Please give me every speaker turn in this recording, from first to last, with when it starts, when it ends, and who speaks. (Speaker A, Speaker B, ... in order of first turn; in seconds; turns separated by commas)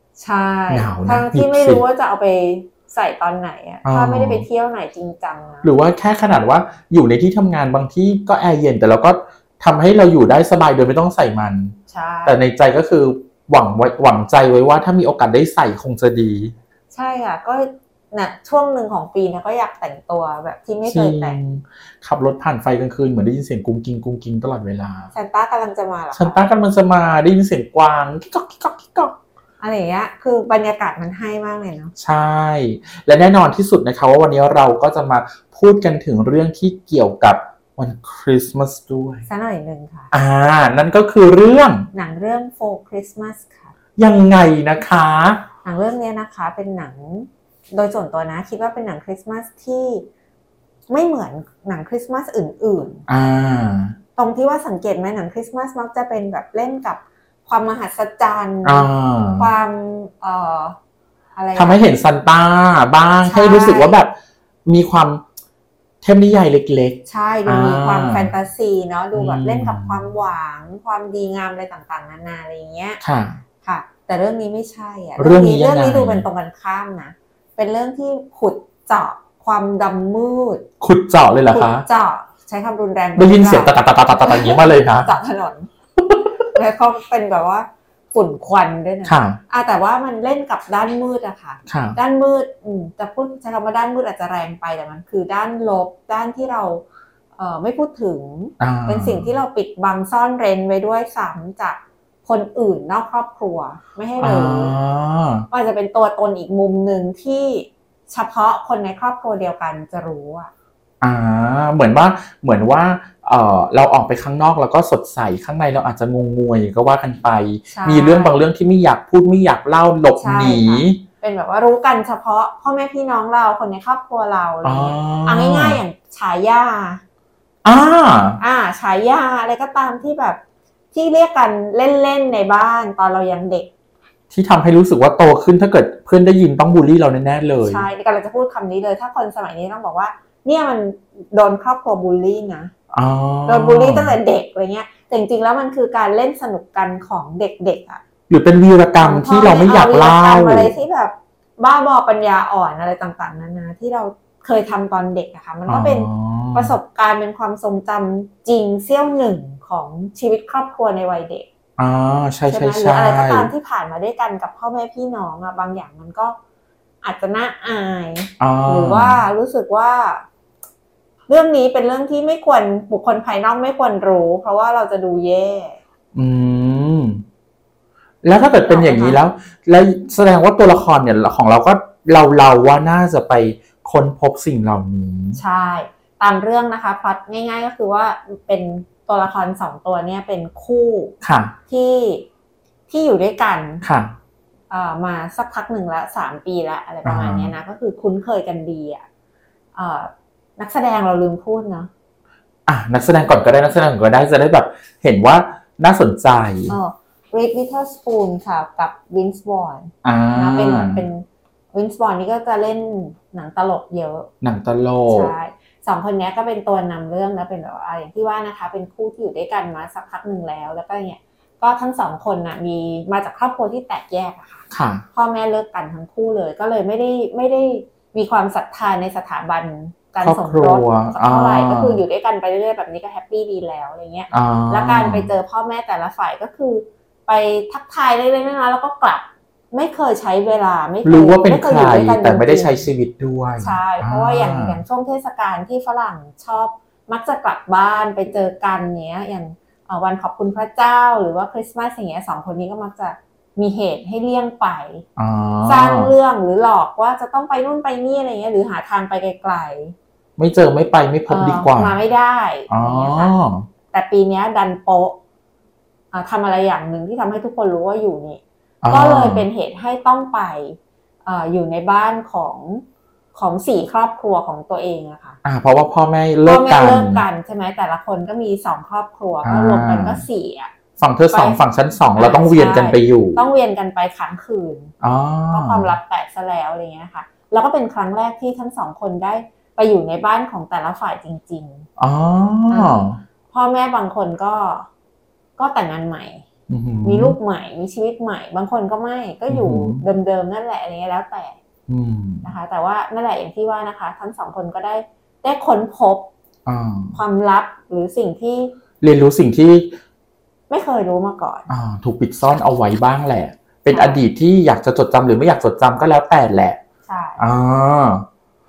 Speaker A: 0.2-5.7, Speaker B: 0.7-1.8, Speaker B: 3.8-4.4, Speaker B: 5.6-11.7, Speaker A: 11.9-12.4, Speaker B: 12.2-16.5, Speaker A: 16.9-21.4, Speaker B: 20.9-25.1, Speaker A: 25.1-26.4, Speaker B: 26.1-29.1, Speaker A: 29.6-31.9, Speaker B: 32.0-39.2, Speaker A: 39.3-40.1, Speaker B: 40.1-41.9, Speaker A: 41.9-43.7, Speaker B: 44.0-45.4, Speaker A: 45.6-50.1, Speaker A: 50.9-53.0, Speaker B: 53.1-54.0, Speaker A: 54.1-58.9, Speaker B: 58.6-59.5, Speaker A: 59.4-60.8, Speaker A: 61.3-61.8, Speaker B: 61.5-64.1, Speaker A: 63.2-64.0, Speaker B: 64.7-65.2, Speaker B: 66.0-68.3, Speaker A: 67.0-73.0, Speaker B: 69.1-70.1, Speaker B: 73.0-73.4, Speaker A: 73.6-80.7, Speaker B: 75.2-76.2, Speaker B: 80.8-81.8, Speaker A: 81.5-85.7, Speaker B: 83.2-85.1, Speaker B: 86.0-86.2, Speaker A: 86.5-96.8, Speaker B: 89.0-89.4, Speaker B: 91.7-92.0, Speaker A: 97.3-104.8, Speaker B: 98.6-99.3, Speaker B: 104.2-105.5, Speaker A: 105.5-110.5, Speaker B: 111.0-121.0, Speaker A: 117.7-118.4, Speaker A: 120.2-127.0, Speaker B: 124.6-125.8, Speaker B: 127.6-128.4, Speaker A: 128.4-130.4, Speaker A: 130.9-133.7, Speaker B: 134.3-137.8, Speaker A: 137.6-142.7, Speaker B: 142.9-144.2, Speaker A: 143.5-148.0, Speaker B: 148.3-150.7, Speaker A: 149.0-161.5, Speaker B: 155.7-156.7, Speaker B: 161.8-163.5, Speaker A: 162.5-166.4, Speaker A: 167.0-170.2, Speaker B: 168.4-169.2, Speaker A: 171.3-175.8, Speaker B: 176.1-177.2, Speaker B: 178.2-185.4, Speaker A: 178.6-179.2, Speaker A: 185.3-191.1, Speaker B: 191.2-191.6, Speaker A: 191.7-192.3, Speaker A: 192.9-193.8, Speaker B: 193.8-194.1, Speaker A: 194.7-199.1, Speaker B: 197.0-197.5, Speaker A: 199.7-201.9, Speaker B: 202.7-206.8, Speaker A: 206.7-214.3, Speaker B: 210.0-211.0, Speaker B: 214.4-215.3, Speaker A: 215.1-242.8, Speaker B: 224.7-225.0, Speaker B: 230.2-232.0, Speaker B: 234.3-235.3, Speaker B: 241.0-244.8, Speaker A: 243.6-255.0, Speaker B: 255.2-256.1, Speaker A: 255.7-259.9, Speaker B: 260.4-262.0, Speaker A: 261.3-263.4, Speaker B: 262.7-263.7, Speaker A: 263.9-265.2, Speaker A: 266.1-275.4, Speaker B: 268.8-269.5, Speaker B: 275.4-277.2, Speaker A: 276.4-280.7, Speaker B: 279.4-280.2, Speaker B: 281.0-283.4, Speaker A: 281.3-281.6, Speaker A: 282.1-284.9, Speaker B: 285.0-285.9, Speaker A: 285.5-291.9, Speaker B: 292.0-293.2, Speaker A: 292.7-294.9, Speaker A: 295.6-296.4, Speaker B: 296.7-297.4, Speaker A: 297.0-301.6, Speaker B: 299.5-300.0, Speaker B: 301.9-302.5, Speaker A: 302.4-306.3, Speaker B: 306.6-307.2, Speaker A: 307.1-308.7, Speaker B: 309.0-310.0, Speaker A: 310.7-311.7, Speaker B: 311.7-316.8, Speaker A: 313.9-314.2, Speaker A: 317.1-317.4, Speaker B: 317.4-318.2